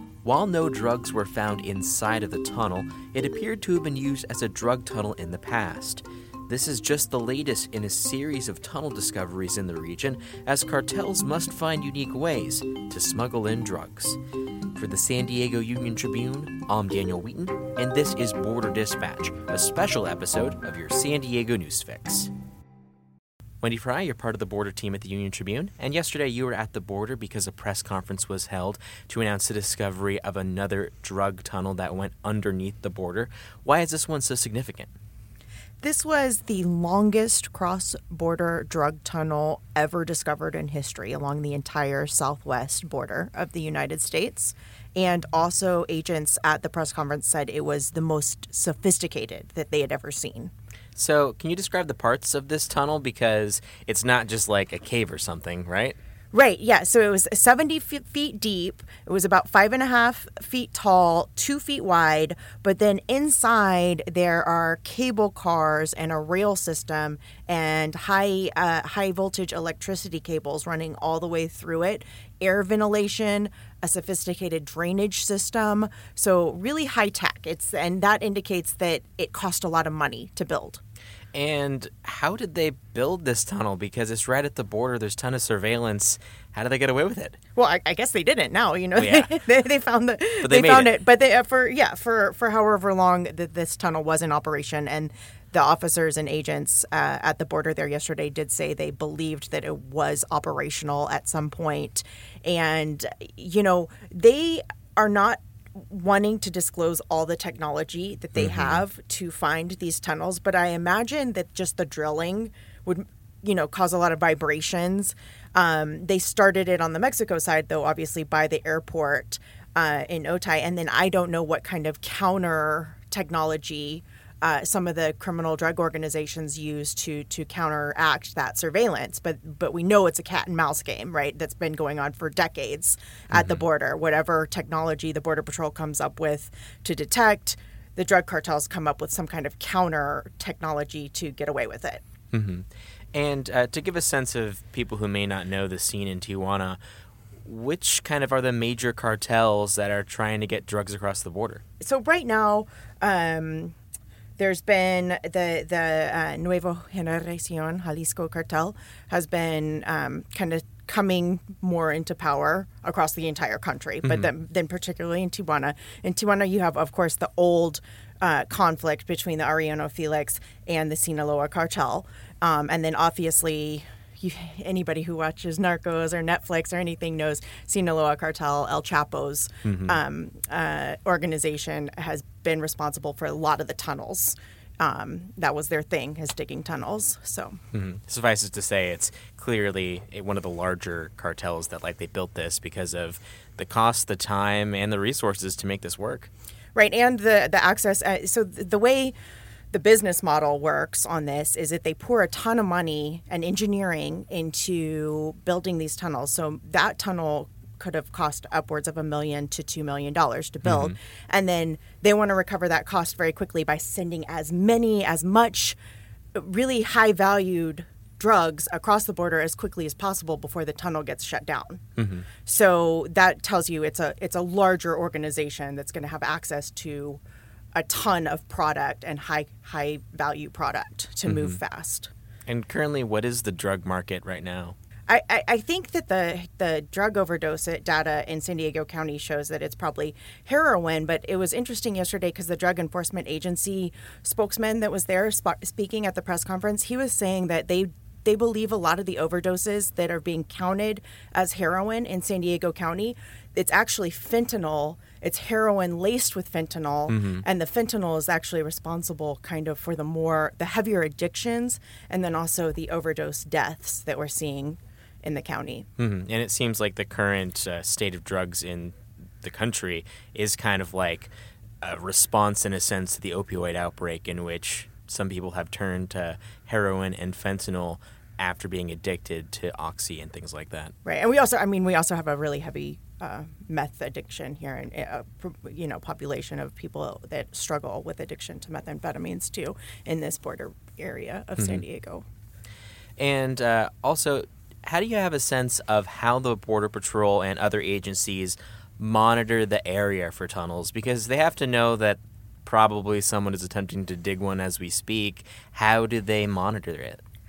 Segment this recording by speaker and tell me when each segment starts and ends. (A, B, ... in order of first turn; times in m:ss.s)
0:00.2-0:14.2 A
0:14.7-0:22.3 A
0:23.6-0:34.9 A
0:35.8-0:50.5 B
0:51.0-0:56.0 A
0:56.3-1:20.8 B
1:21.3-1:27.4 A
1:27.6-2:22.0 B
1:29.0-1:29.4 A
1:30.4-1:31.0 A
1:48.4-1:48.8 A
2:13.3-2:13.6 A
2:22.3-2:26.8 A
2:27.4-2:31.6 A
2:31.8-2:33.7 B
2:34.4-3:07.6 B
2:59.6-3:00.0 A
3:07.7-3:16.3 A
3:16.7-3:19.1 B
3:19.7-3:35.8 B
3:30.6-3:30.9 A
3:36.3-3:41.8 B
3:42.0-3:42.3 A
3:42.4-3:47.2 B
3:47.7-3:52.1 B
3:51.2-3:51.6 A
3:52.5-3:54.8 A
3:55.1-4:25.9 B
4:17.1-4:17.4 A
4:26.0-4:40.9 A
4:41.0-4:52.2 B
4:51.6-4:51.8 A
4:53.2-5:07.2 A